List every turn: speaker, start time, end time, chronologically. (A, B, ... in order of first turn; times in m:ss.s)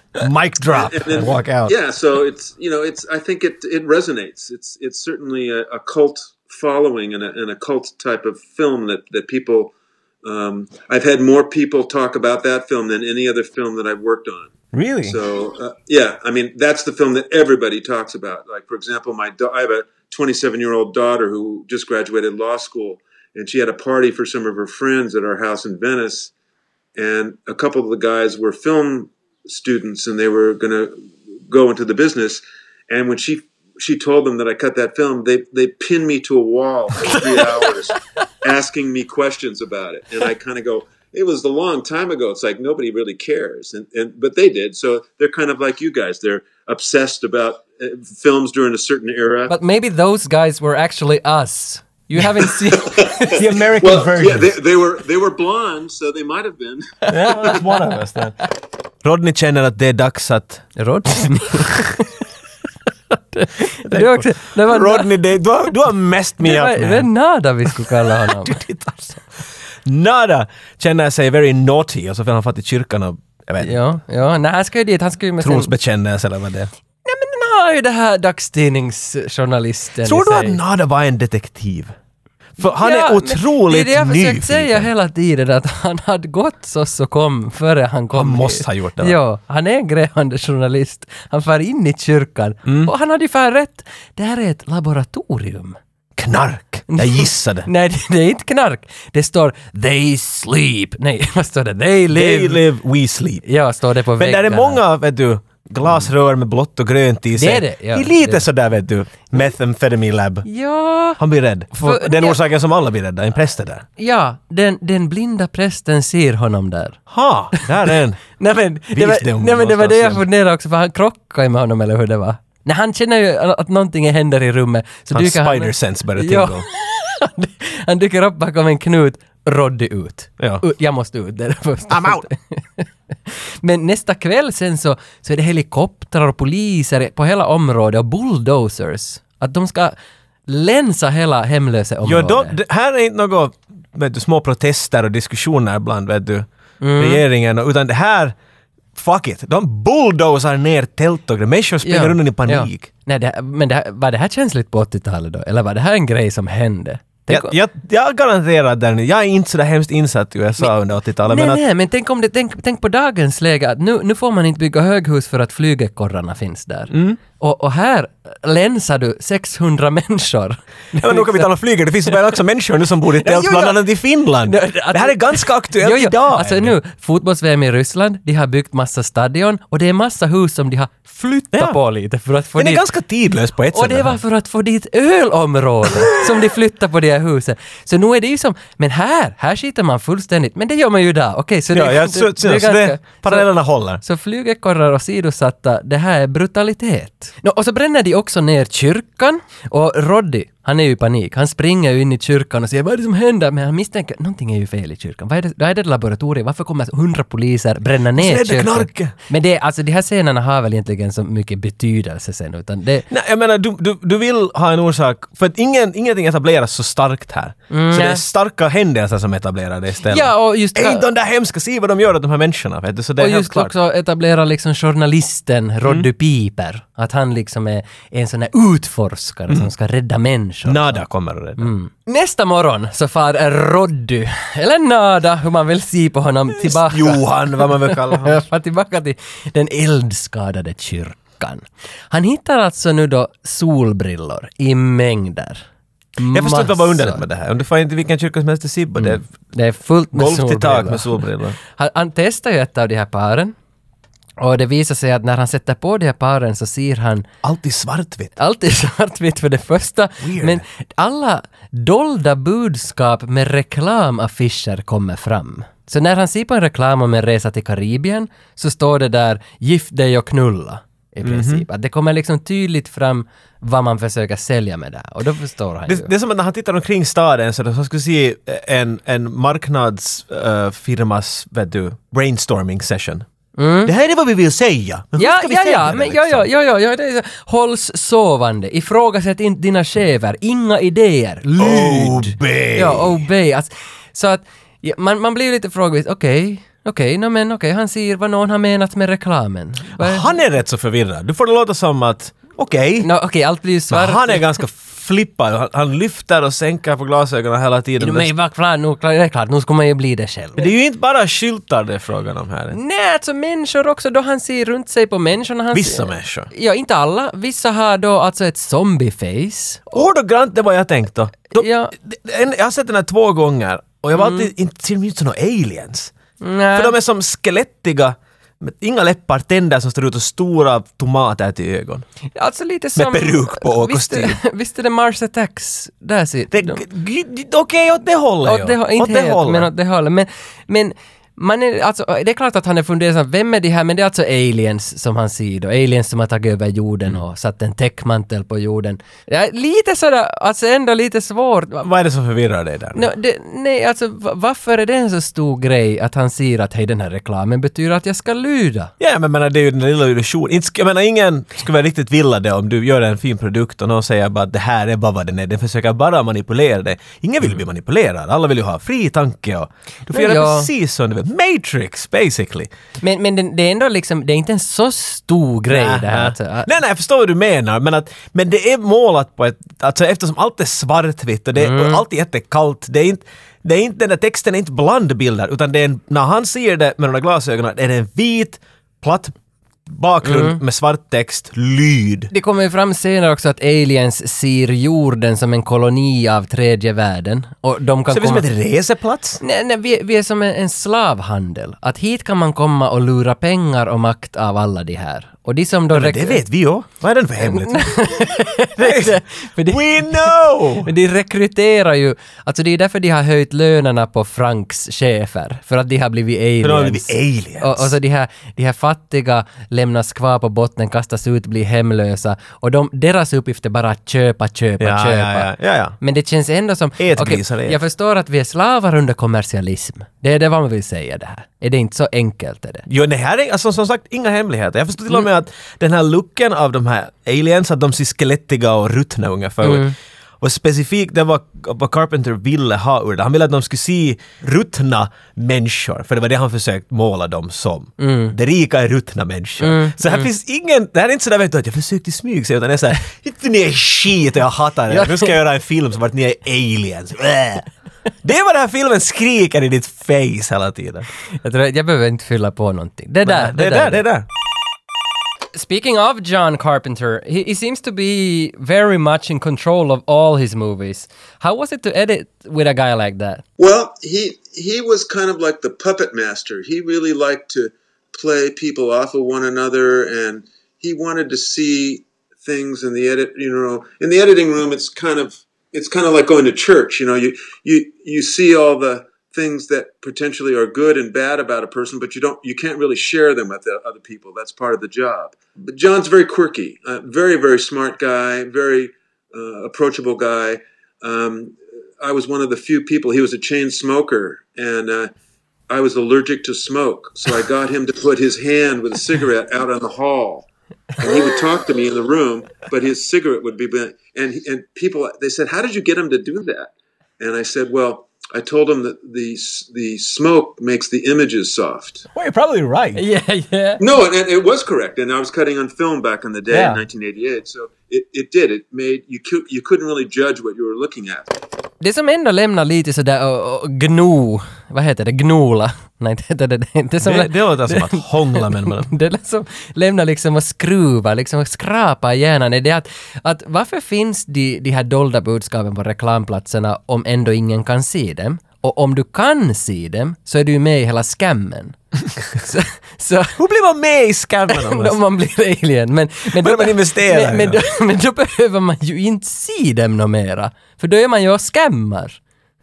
0:00.2-0:01.7 A
0:00.7-0:26.3 B
0:14.7-0:15.2 A
0:27.0-0:31.0 B
0:31.5-0:49.5 B
0:49.5-0:53.5 C
0:52.6-0:57.6 B
0:53.3-0:54.5 A
0:57.1-0:57.9 C
0:57.1-0:58.4 A
0:59.0-1:00.7 A
1:00.8-1:02.1 C
1:03.1-1:05.1 C
1:03.8-1:07.1 A
1:06.4-1:08.6 C
1:07.7-1:09.2 A
1:09.9-1:13.8 A
1:13.6-1:15.7 C
1:15.4-1:16.7 A
1:17.0-1:20.6 C
1:20.0-1:21.9 A
1:22.6-1:24.9 A
1:22.6-1:35.8 C
1:28.1-1:29.2 A
1:32.6-1:32.9 A
1:36.2-1:37.7 A
1:36.9-1:42.6 C
1:42.1-1:43.4 A
1:43.4-1:44.8 C
1:44.2-1:50.5 A
1:47.4-1:48.4 C
1:50.4-1:51.2 C
1:51.2-1:53.9 A
1:51.8-1:52.4 C
1:54.0-1:57.0 C
1:57.1-1:58.2 A
1:57.6-2:20.0 C
1:58.9-2:00.2 A
2:05.1-2:06.7 A
2:10.4-2:10.6 A
2:11.9-2:12.3 A
2:20.5-2:22.6 C
2:22.0-2:28.4 A
2:26.8-2:27.2 C
2:29.0-2:32.9 A
2:31.8-2:37.5 C
2:37.3-2:41.6 A
2:41.3-2:51.5 C
2:46.9-2:47.2 A
2:51.0-2:56.8 A
2:53.1-2:53.9 C
2:54.4-3:02.8 C
3:01.5-3:01.8 A
3:02.6-3:04.2 A
3:03.7-3:13.5 C
3:11.7-3:14.0 A
3:14.0-3:33.1 C
3:28.2-3:29.1 A
3:33.1-3:43.7 A
3:37.7-3:38.2 C
3:40.1-3:41.1 C
3:43.2-3:51.0 C
3:50.6-3:51.7 A
3:51.6-4:05.6 C
3:56.6-3:58.4 A
4:06.2-4:07.2 C
4:06.3-4:09.2 A
4:09.0-4:13.6 C
4:10.1-4:11.6 A
4:14.4-4:17.3 C
4:17.4-4:18.3 A
4:18.4-4:36.1 C
4:20.2-4:20.6 A
4:31.2-4:31.6 A
4:35.9-4:43.3 A
4:43.6-4:43.9 C
4:43.8-4:46.4 A
4:45.2-5:00.3 C
4:51.6-4:53.2 A
5:00.0-5:03.1 A
5:03.0-5:04.5 C
5:03.9-5:08.3 A
5:08.0-5:10.7 C
5:10.6-5:12.8 A
5:12.7-5:20.0 C
5:15.7-5:16.5 A
5:19.9-5:26.1 A
5:21.6-5:21.9 C
5:24.2-5:24.5 C
5:26.4-5:26.9 C
5:26.7-5:32.1 A
5:32.4-5:36.8 C
5:33.0-5:34.4 A
5:36.5-5:39.7 A
5:38.4-5:51.9 C
5:51.8-5:53.1 A
5:53.0-5:58.9 C
5:59.0-6:12.7 A
6:10.1-6:10.7 C
6:13.0-6:16.7 C
6:15.7-6:29.3 A
6:21.6-6:22.0 C
6:29.9-6:32.3 A
6:30.2-6:30.6 C
6:32.3-6:38.5 C
6:38.1-6:39.4 A
6:39.4-6:46.4 C
6:45.9-6:48.1 A
6:47.4-7:12.8 C
6:48.8-6:50.9 A
6:56.6-6:57.9 A
7:04.8-7:06.0 A
7:07.0-7:07.8 A
7:12.9-7:37.7 A
7:19.6-7:20.0 C
7:28.0-7:28.3 C
7:29.6-7:30.3 C
7:34.9-7:35.3 C
7:38.2-7:41.1 A
7:41.4-7:44.0 C
7:43.2-7:44.3 A
7:45.5-7:53.4 C
7:53.6-8:25.1 B
8:25.7-8:30.5 B
8:31.0-8:42.0 B
8:42.2-8:43.0 A
8:43.0-8:43.8 C
8:43.8-8:51.3 B
8:46.5-8:46.8 A
8:51.8-9:11.8 C
8:57.0-8:58.9 A
9:12.4-9:13.4 C
9:13.4-9:15.0 A
9:14.5-9:22.2 C
9:16.4-9:17.6 A